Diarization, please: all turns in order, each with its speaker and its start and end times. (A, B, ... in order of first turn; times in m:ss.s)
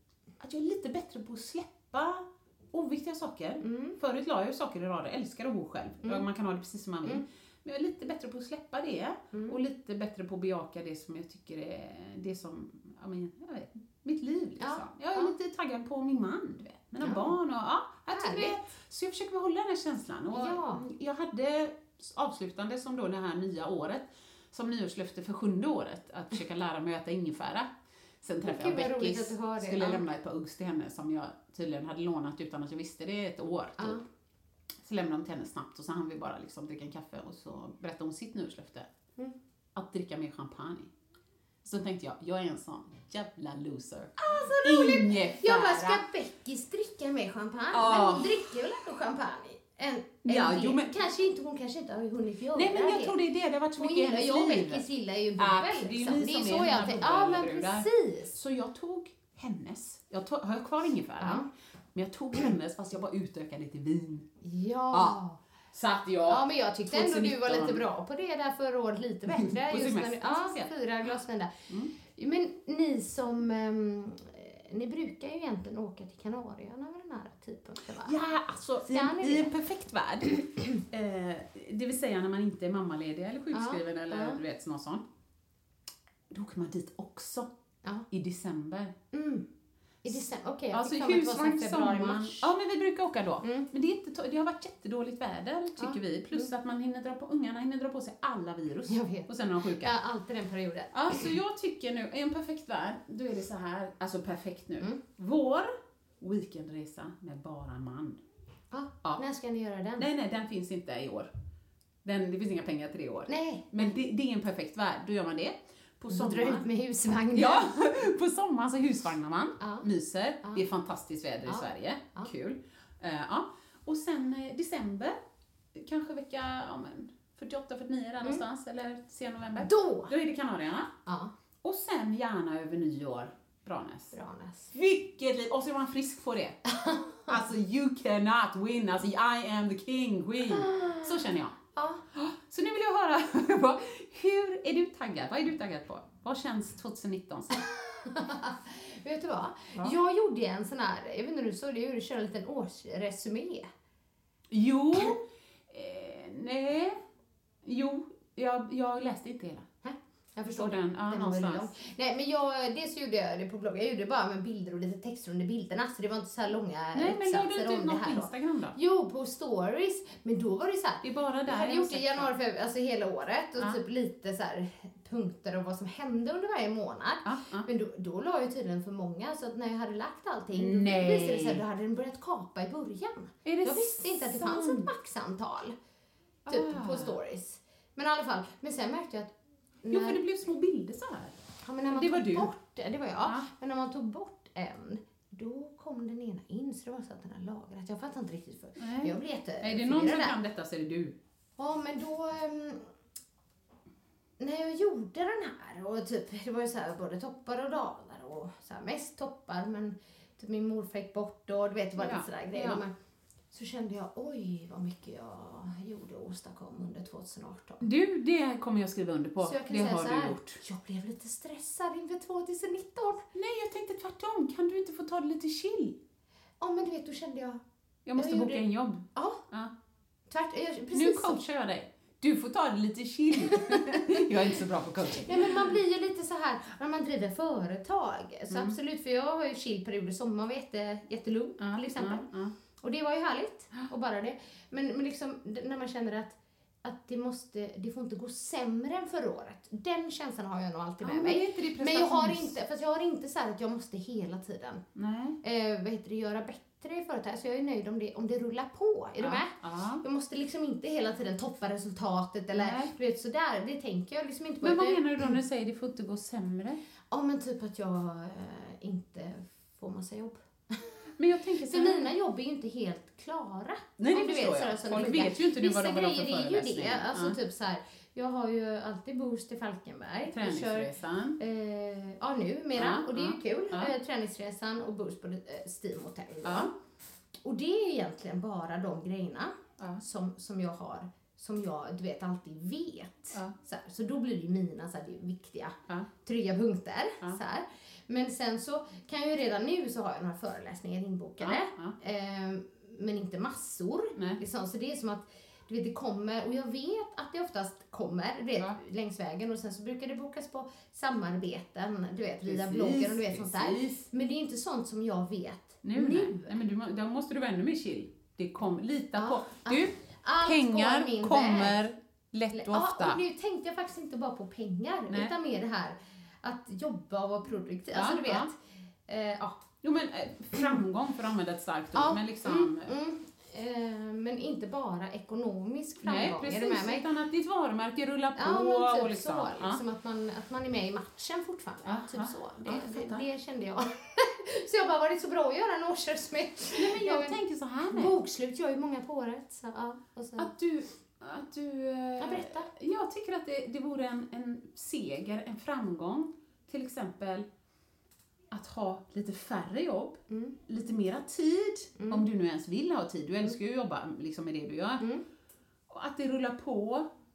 0:00.4-0:27.7 A
0:03.6-0:04.0 B
0:09.3-0:09.6 B
0:14.6-0:15.3 B
0:17.0-0:17.3 B
0:18.1-0:18.5 B
0:20.3-0:20.8 B
0:28.2-0:34.0 A
0:28.4-0:30.0 B
0:34.8-0:38.9 A
0:39.8-0:40.9 A
0:41.6-0:46.0 A
0:44.2-0:53.2 B
0:47.7-0:48.5 A
0:50.2-0:51.0 A
0:52.6-0:54.9 A
0:53.8-0:58.4 B
0:55.4-1:04.3 A
1:01.2-1:01.5 B
1:04.4-1:05.4 B
1:04.9-1:05.2 A
1:05.7-1:07.8 A
1:06.3-1:18.2 B
1:09.3-1:10.7 A
1:18.0-1:25.0 A
1:18.9-1:19.5 B
1:23.5-1:24.4 B
1:26.3-1:27.5 A
1:28.1-1:28.9 A
1:29.1-1:29.4 B
1:30.0-1:32.5 B
1:30.7-1:39.9 A
1:33.4-1:33.7 B
1:35.8-1:36.5 B
1:38.9-1:41.2 B
1:40.9-1:48.2 A
1:48.7-1:50.1 B
1:50.0-1:51.3 A
1:52.0-1:56.6 A
1:53.3-1:53.9 B
1:56.1-1:57.6 B
1:57.3-2:05.2 A
1:59.6-1:59.8 B
2:01.5-2:02.3 B
2:05.8-2:10.9 A
2:09.6-2:10.1 B
2:11.1-2:11.3 B
2:11.6-2:14.1 A
2:14.1-2:14.7 B
2:14.7-2:16.7 A
2:16.7-2:17.3 B
2:17.2-2:21.6 A
2:20.5-2:22.0 B
2:22.1-2:27.7 A
2:27.9-2:33.7 B
2:34.5-2:37.0 A
2:37.6-2:39.7 A
2:39.8-3:05.8 B
2:40.6-2:41.7 A
2:46.9-2:48.8 A
2:51.0-2:52.3 A
2:57.2-2:57.7 A
3:00.5-3:01.6 A
3:03.4-3:04.9 A
3:06.5-3:07.2 A
3:06.5-3:09.3 B
3:09.8-3:10.2 B
3:09.9-3:11.4 A
3:11.6-3:20.4 B
3:11.9-3:12.5 A
3:18.8-3:21.2 A
3:21.6-3:22.9 B
3:24.4-3:32.9 B
3:32.0-3:32.8 A
3:33.5-3:37.8 B
3:37.8-3:40.6 A
3:39.4-3:43.2 B
3:43.4-3:46.0 A
3:46.6-3:47.6 B
3:48.1-3:49.7 A
3:48.2-3:48.6 B
3:49.1-3:49.4 B
3:50.3-3:51.4 B
3:50.9-3:55.8 A
3:53.5-3:54.1 B
3:55.2-4:02.3 B
3:58.5-3:58.8 A
4:01.6-4:02.6 A
4:02.8-4:14.8 B
4:11.0-4:12.5 A
4:15.0-4:15.4 A
4:15.4-4:25.0 B
4:19.2-4:20.0 A
4:22.5-4:22.9 A
4:24.6-4:26.8 A
4:27.1-4:30.8 B
4:31.2-4:32.1 A
4:31.7-4:46.7 B
4:34.0-4:37.4 A
4:40.3-4:41.4 A
4:42.8-4:43.9 A
4:46.4-4:46.7 A
4:47.4-5:16.5 B
5:01.4-5:02.0 A
5:04.2-5:04.4 A
5:12.4-5:14.0 A
5:15.8-5:23.2 A
5:19.2-5:21.8 B
5:22.5-5:29.6 B
5:27.9-5:28.5 A
5:29.8-5:32.9 A
5:32.0-5:37.0 B
5:36.0-5:39.8 A
5:38.4-5:50.5 B
5:41.8-5:43.2 A
5:46.8-5:48.2 A
5:50.4-5:57.5 A
5:52.2-5:52.7 B
5:58.5-6:05.1 A
6:00.3-6:00.6 B
6:02.0-6:02.3 B
6:05.9-6:07.1 A